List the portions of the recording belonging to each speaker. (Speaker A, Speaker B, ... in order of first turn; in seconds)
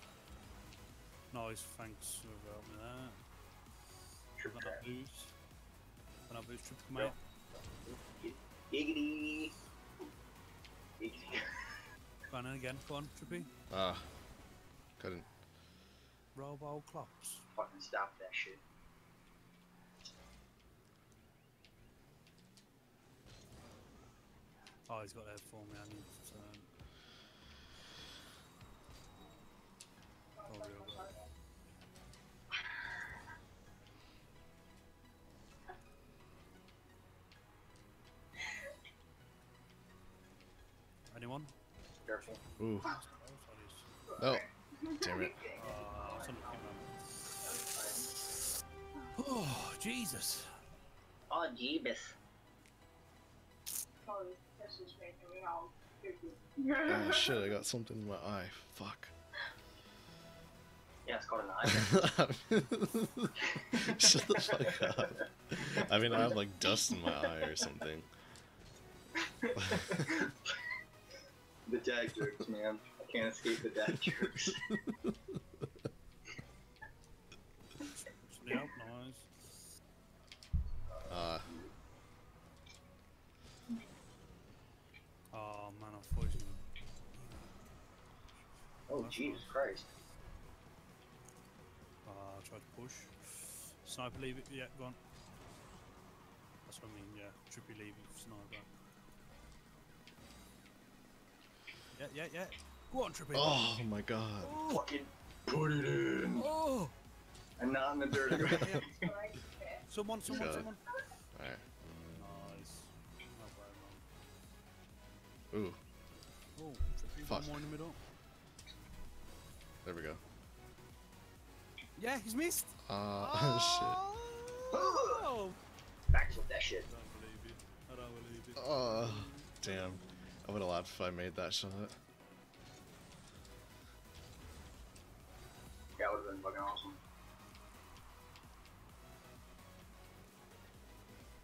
Speaker A: 1.3-3.2, 4.5-5.3, 6.3-7.2, 12.3-13.5, 16.4-17.4, 24.9-26.7, 30.5-31.1, 41.1-41.5, 42.2-43.9, 45.5-47.5, 49.1-50.6, 77.9-79.5, 85.3-86.6, 87.1-87.7, 88.9-89.5, 92.0-95.0, 96.7-98.8, 102.0-103.8, 104.4-104.8, 106.4-106.9, 108.4-108.9, 109.9-110.8, 112.1-114.0, 116.6-118.0, 122.0-125.6, 126.9-129.6
Speaker B: 4.4-4.8, 7.0-9.5, 11.0-11.7, 17.5-18.6, 42.0-42.4, 45.8-46.7, 47.6-48.0, 51.3-52.1, 61.1-62.1, 63.4-66.4, 66.9-67.7, 69.2-70.5, 71.7-74.7, 80.9-81.7, 88.9-89.9, 104.7-106.5, 107.6-109.1, 124.7-125.2, 126.1-126.9, 136.0-137.0
Speaker C: 13.7-14.1, 15.0-15.3, 42.6-42.9, 44.2-44.5, 45.0-45.4, 56.9-59.1, 61.7-68.1, 69.7-70.1, 74.1-75.2, 81.1-81.5, 103.3-104.6, 110.3-110.7, 111.3-111.6, 115.5-115.8, 117.3-117.5, 119.8-120.2, 122.9-124.0, 128.6-132.0
Speaker D: 30.4-31.3, 44.1-45.6, 47.4-47.8, 54.0-57.5, 109.0-109.8